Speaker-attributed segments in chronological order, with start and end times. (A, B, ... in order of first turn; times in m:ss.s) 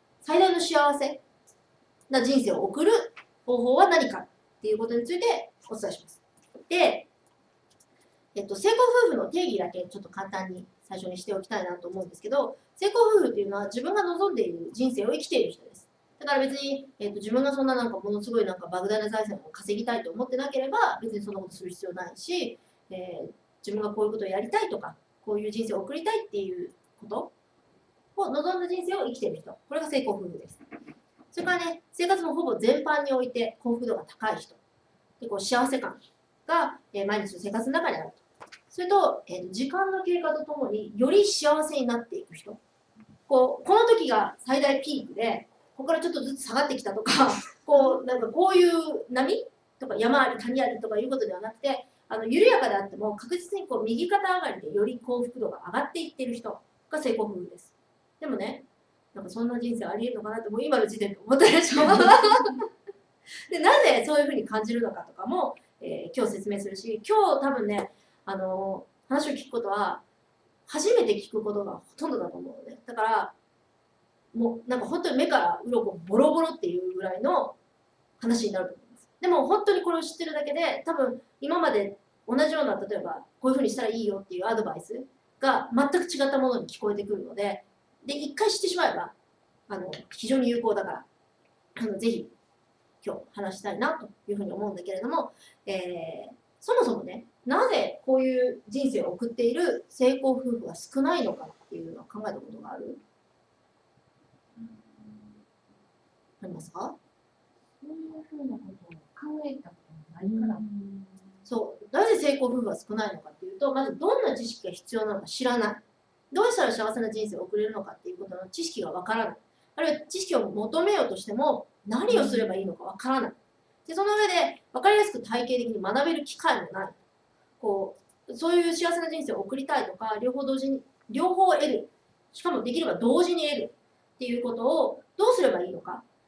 0:00.2-0:01.2 A
0:02.1-0:07.1 A
0:08.3-0:27.3 A
0:28.1-0:30.6 A
0:31.3-0:34.6 A
0:35.2-0:42.6 A
0:43.3-1:02.6 A
1:03.5-1:10.0 A
1:10.7-1:13.3 A
1:14.3-1:17.6 A
1:18.2-1:29.1 A
1:29.7-1:31.1 A
1:31.8-1:32.3 A
1:33.0-1:43.0 A
1:44.6-1:45.4 B
1:46.4-1:47.0 A
1:47.8-1:51.5 B
1:51.4-2:07.0 A
2:02.1-2:02.4 B
2:07.6-2:16.0 A